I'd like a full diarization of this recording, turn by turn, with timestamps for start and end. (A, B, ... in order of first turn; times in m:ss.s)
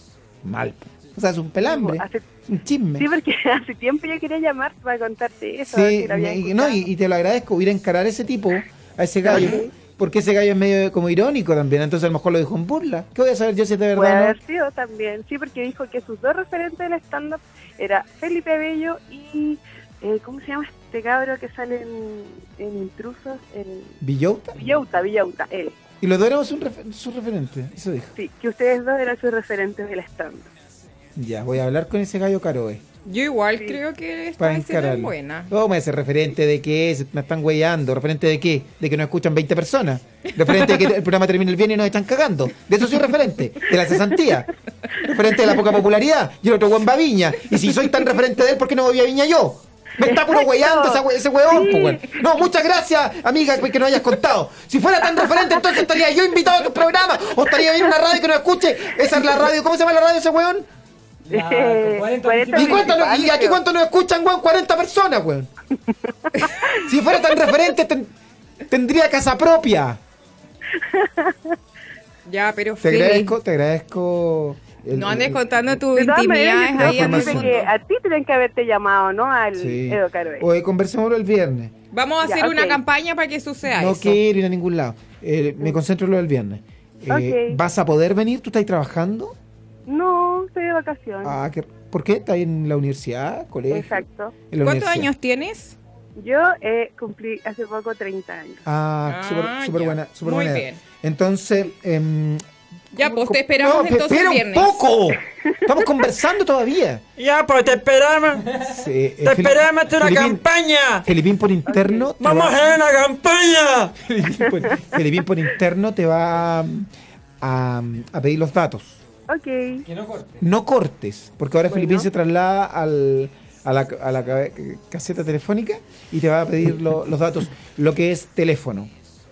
0:00.4-0:03.1 A
0:01.6-0:02.2 B
0:03.0-0:06.8 B
0:05.7-0:14.4 A
0:09.2-0:09.7 B
0:14.0-0:24.0 B
0:24.0-0:24.6 A
0:24.6-0:25.8 B
0:26.0-0:28.1 A
0:28.2-0:30.5 B
0:31.2-0:32.8 A
0:33.1-0:35.5 C
0:34.4-0:44.5 A
0:45.0-1:00.7 A
0:50.0-0:52.2 B
1:01.3-1:03.2 D
1:01.3-1:03.6 B
1:02.5-1:05.5 A
1:06.3-1:06.8 B
1:06.8-1:08.1 A
1:08.7-1:10.0 A
1:10.8-1:11.5 B
1:12.3-1:13.3 C
1:12.8-1:15.8 A
1:14.9-1:17.7 C
1:15.9-1:20.5 B
1:16.7-1:17.6 A
1:19.6-1:21.7 A
1:21.9-1:24.2 C
1:22.2-1:22.8 B
1:23.6-1:29.4 A
1:27.1-1:27.6 B
1:29.9-1:31.4 B
1:31.2-1:35.1 A
1:33.7-1:34.3 B
1:34.6-1:35.8 C
1:36.2-1:38.6 B
1:38.7-1:42.4 A
1:39.1-1:40.8 C
1:42.9-1:47.0 A
1:43.0-1:44.9 C
1:47.2-1:48.4 E
1:48.7-1:50.4 A
1:49.2-1:51.0 E
1:51.0-1:52.6 A
1:51.7-1:52.1 B
1:52.2-1:53.9 E
1:54.0-1:56.9 A
1:54.4-1:54.7 B
1:57.4-1:59.0 A
1:59.3-1:59.8 B
1:59.9-2:00.4 D
2:00.4-2:08.9 A
2:01.7-2:02.1 B